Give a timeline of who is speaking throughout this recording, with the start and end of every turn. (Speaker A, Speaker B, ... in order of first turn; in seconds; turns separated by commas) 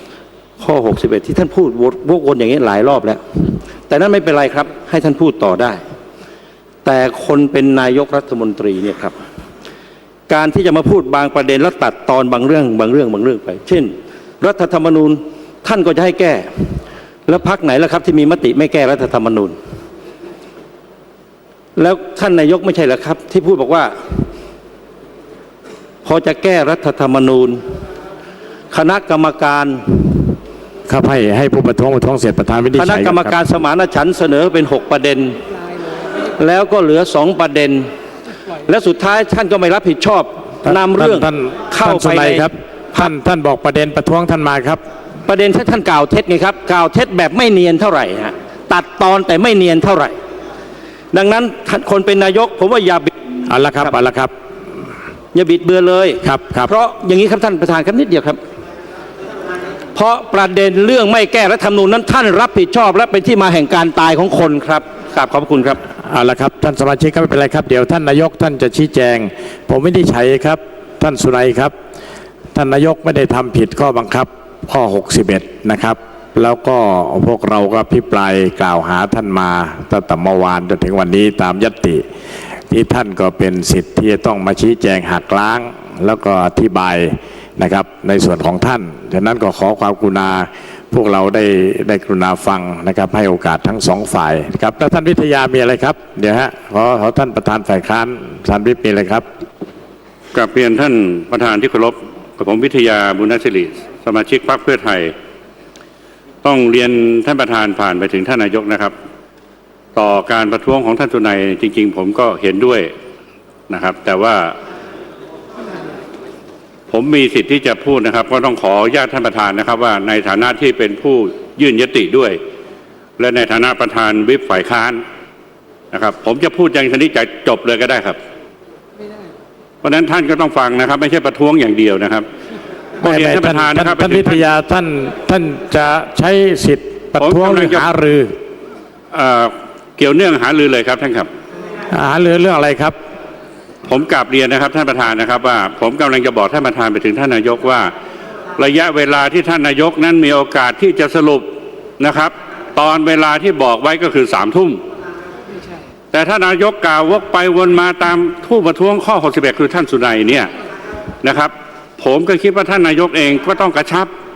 Speaker A: 0.6-5.8, Speaker A: 6.8-9.1, Speaker A: 10.3-19.6, Speaker A: 21.8-24.3, Speaker A: 26.0-27.6, Speaker A: 28.7-30.4, Speaker B: 30.9-33.4, Speaker A: 32.8-35.4, Speaker A: 36.3-37.9, Speaker A: 38.6-43.1, Speaker B: 40.6-44.8, Speaker A: 45.2-50.2, Speaker A: 51.1-53.1, Speaker B: 53.5-54.3, Speaker A: 55.3-58.4, Speaker B: 56.2-56.7, Speaker A: 59.9-65.8, Speaker B: 66.0-71.7, Speaker B: 72.5-82.0, Speaker B: 82.7-99.2, Speaker C: 100.3-105.1, Speaker C: 106.4-108.9, Speaker C: 109.9-112.9, Speaker C: 113.7-114.5, Speaker C: 116.9-122.4, Speaker C: 123.2-125.0, Speaker C: 125.9-128.2, Speaker C: 129.8-132.2, Speaker C: 133.0-134.5, Speaker B: 133.0-138.3, Speaker C: 137.2-137.9, Speaker C: 139.1-141.3, Speaker B: 141.9-142.9, Speaker C: 143.9-147.9, Speaker C: 148.6-154.8, Speaker C: 156.1-160.5, Speaker C: 161.2-164.1